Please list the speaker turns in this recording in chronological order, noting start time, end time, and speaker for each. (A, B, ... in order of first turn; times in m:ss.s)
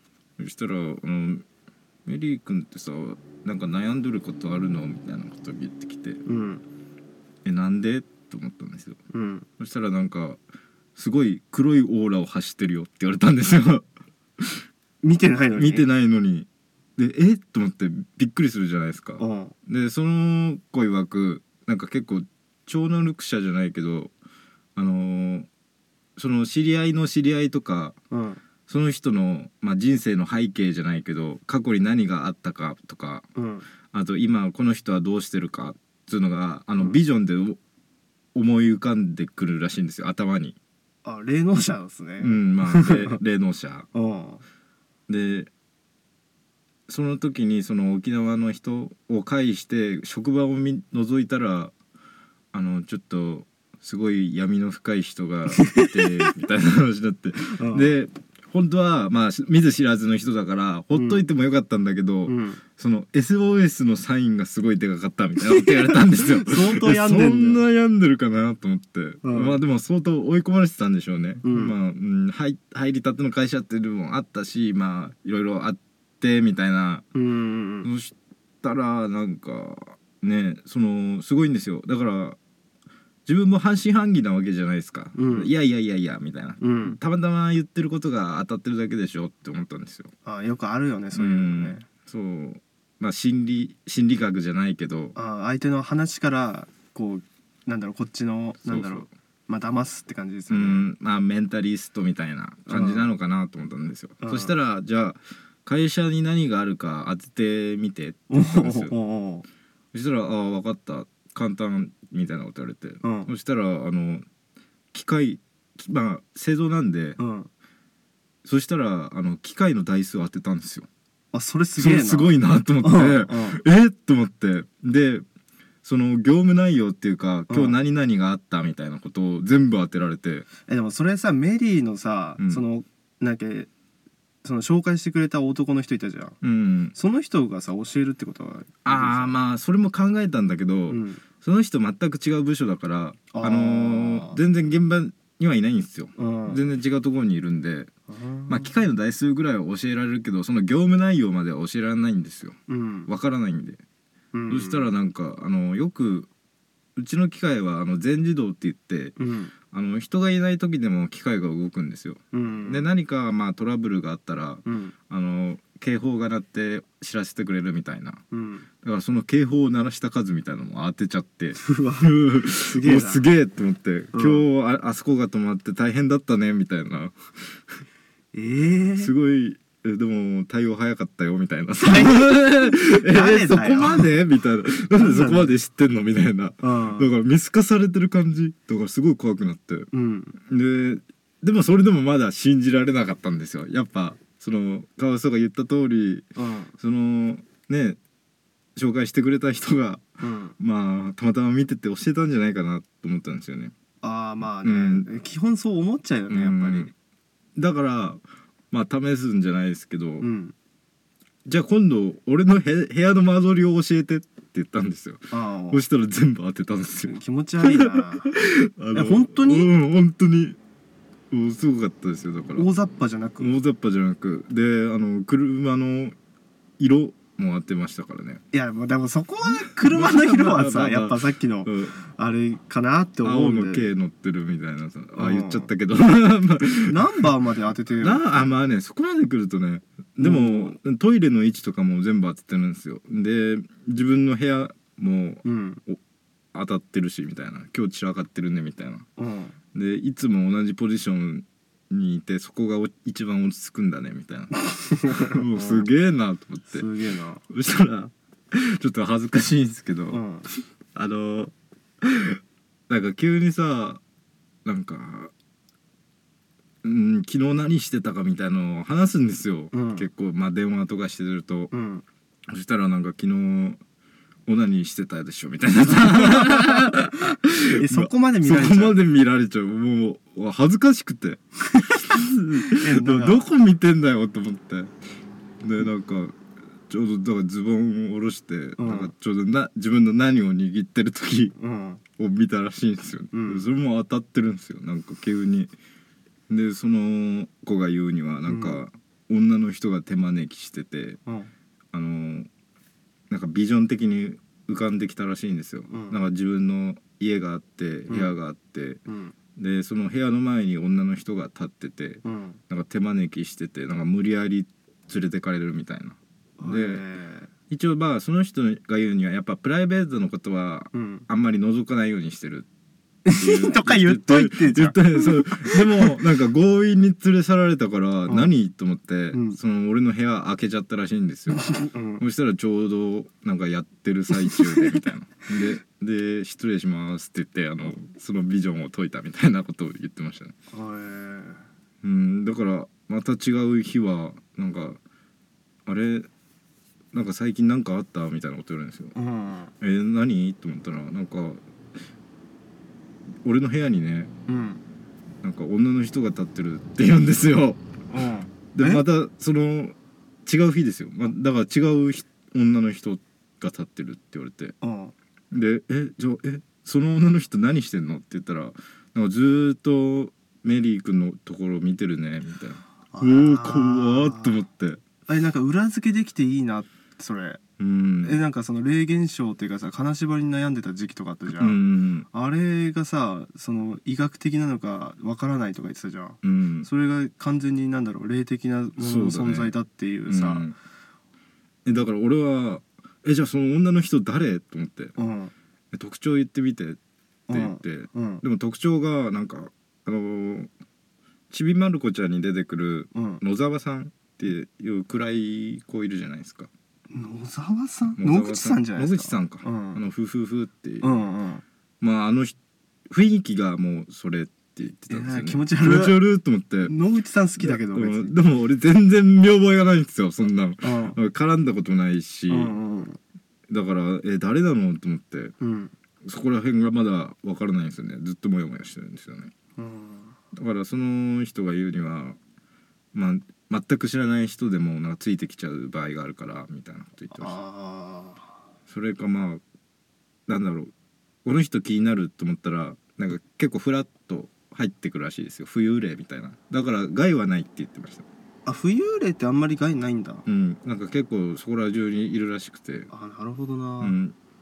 0:00.4-0:01.4 A
0:02.1-0:06.2 A
0:06.3-0:06.6 B
0:07.4-0:09.0 A
0:09.1-0:09.5 B
0:09.6-0:10.4 A
0:11.0-0:13.9 A
0:14.4-0:14.6 A
0:15.0-0:15.9 B
0:15.6-0:24.1 A
0:19.2-0:19.6 B
0:24.8-0:25.5 A
0:26.2-0:28.0 A
0:28.1-0:28.4 B
0:28.7-0:33.2 A
0:33.4-0:33.7 B
0:33.9-0:37.6 A
0:38.4-0:40.6 A
0:41.0-0:43.2 B
0:42.2-0:43.9 A
0:43.9-0:44.4 B
0:45.1-0:45.5 A
0:46.9-0:51.7 A
0:52.5-1:17.1 A
0:55.6-0:56.3 B
0:57.6-0:57.9 B
1:00.9-1:01.2 B
1:02.3-1:02.6 B
1:05.9-1:07.6 B
1:09.2-1:09.6 B
1:11.4-1:11.8 B
1:17.1-1:17.9 B
1:17.8-1:22.4 A
1:23.3-1:30.1 A
1:25.2-1:25.5 B
1:26.6-1:27.0 B
1:30.2-1:31.8 B
1:31.1-1:35.2 A
1:35.2-1:40.9 B
1:38.6-1:39.1 A
1:40.5-1:48.9 A
1:42.7-1:43.1 B
1:44.2-1:44.5 B
1:48.3-1:49.5 B
1:49.9-1:54.2 A
1:53.0-1:53.3 B
1:54.9-1:57.2 A
1:57.2-1:57.5 B
1:58.4-2:00.9 A
2:01.3-2:03.6 B
2:01.8-2:05.2 A
2:05.8-2:10.5 A
2:07.5-2:07.8 B
2:10.6-2:13.7 B
2:14.4-2:16.4 B
2:16.4-2:17.0 A
2:16.9-2:19.4 B
2:18.8-2:27.9 A
2:20.9-2:21.2 B
2:23.3-2:24.4 B
2:26.2-2:26.7 B
2:28.1-2:28.7 B
2:28.5-2:33.8 A
2:32.7-2:33.1 B
2:34.3-2:34.9 B
2:34.5-2:36.3 A
2:37.0-2:39.2 A
2:39.2-2:39.5 B
2:39.7-2:48.2 A
2:42.3-2:42.9 B
2:44.6-2:44.9 B
2:48.3-2:48.7 B
2:48.8-2:57.2 A
2:51.6-2:53.2 B
2:54.1-2:54.5 B
2:58.3-2:59.1 B
2:59.0-3:09.9 A
3:01.8-3:04.2 B
3:05.0-3:05.6 B
3:06.6-3:07.1 B
3:09.9-3:10.4 B
3:10.5-3:16.3 A
3:16.4-3:16.7 B
3:16.8-3:18.0 A
3:18.8-3:20.1 A
3:20.2-3:20.6 B
3:20.6-3:23.7 A
3:24.0-3:26.9 B
3:24.6-3:25.1 A
3:26.3-3:26.9 A
3:27.6-3:30.3 A
3:30.2-3:30.6 B
3:31.5-3:40.6 A
3:35.3-3:35.8 B
3:37.0-3:38.3 B
3:38.9-3:39.7 B
3:41.3-3:42.7 A
3:42.6-3:43.5 B
3:43.4-3:46.2 A
3:46.8-3:48.4 A
3:48.5-3:53.9 B
3:49.8-3:51.9 A
3:53.2-3:57.0 A
3:55.2-3:55.7 B
3:56.8-3:58.5 B
3:58.0-4:06.0 A
4:00.2-4:00.8 B
4:05.4-4:05.8 B
4:06.5-4:09.1 A
4:09.2-4:09.6 B
4:09.7-4:16.9 A
4:14.8-4:15.9 B
4:16.7-4:17.4 B
4:17.5-4:20.2 A
4:20.1-4:20.5 B
4:20.9-4:24.0 A
4:24.6-4:25.3 A
4:26.8-4:31.7 A
4:29.7-4:30.1 B
4:31.7-4:32.0 B
4:32.5-4:33.8 A
4:34.5-4:44.9 A
4:37.7-4:39.0 B
4:41.7-4:43.5 B
4:45.6-4:46.4 A
4:46.9-4:51.6 A
4:48.8-4:49.1 B
4:51.6-4:52.0 B
4:52.2-4:55.7 A
4:53.3-4:53.6 B
4:56.5-5:01.2 A
4:58.5-4:58.8 B
5:01.3-5:01.5 B
5:01.9-5:02.5 A
5:03.3-5:09.0 A
5:05.9-5:06.2 B
5:08.1-5:08.4 B
5:09.1-5:09.3 B
5:09.6-5:17.0 A
5:12.2-5:12.6 B
5:16.6-5:17.5 B
5:17.7-5:22.7 A
5:20.9-5:21.3 B
5:23.2-5:26.1 B
5:23.3-5:40.5 A
5:28.3-5:28.5 B
5:29.3-5:29.6 B
5:31.5-5:32.2 B
5:34.5-5:34.8 B
5:40.7-5:41.6 B
5:42.0-5:45.0 A
5:45.9-5:46.3 A
5:47.1-5:49.1 A
5:49.2-5:49.7 B
5:49.8-5:51.6 A
5:53.4-5:54.3 A
5:54.5-5:54.8 B
5:55.4-5:57.8 A
5:58.1-5:59.0 B
5:58.7-6:00.0 A
6:00.5-6:04.8 A
6:04.8-6:05.1 B
6:05.5-6:15.0 A
6:13.1-6:14.6 B
6:15.3-6:17.6 B
6:17.8-6:18.4 A
6:18.2-6:30.7 B
6:21.6-6:22.3 A
6:26.4-6:26.9 A
6:29.0-6:29.7 A
6:30.3-6:30.8 A
6:31.8-6:35.2 A
6:35.2-6:35.5 B
6:35.9-6:37.0 A
6:37.5-6:38.4 B
6:37.5-6:40.7 A
6:41.5-6:46.7 A
6:43.1-6:43.4 B
6:47.1-6:50.0 B
6:48.2-6:51.3 A
6:51.0-6:51.6 B
6:52.0-6:52.6 A
6:53.1-6:56.9 A
6:55.1-6:56.2 B
6:56.8-6:58.4 B
6:57.6-7:02.8 A
7:00.8-7:01.2 B
7:02.5-7:03.2 B
7:03.7-7:05.6 A
7:05.6-7:05.9 B
7:06.2-7:09.5 A
7:09.8-7:10.4 B
7:10.5-7:12.4 A
7:13.1-7:17.6 A
7:17.3-7:18.4 B
7:18.9-7:19.6 A
7:20.5-7:20.9 A
7:21.4-7:28.2 A
7:28.7-7:30.4 B
7:30.5-7:33.1 A
7:33.1-7:34.2 B
7:34.0-7:34.4 A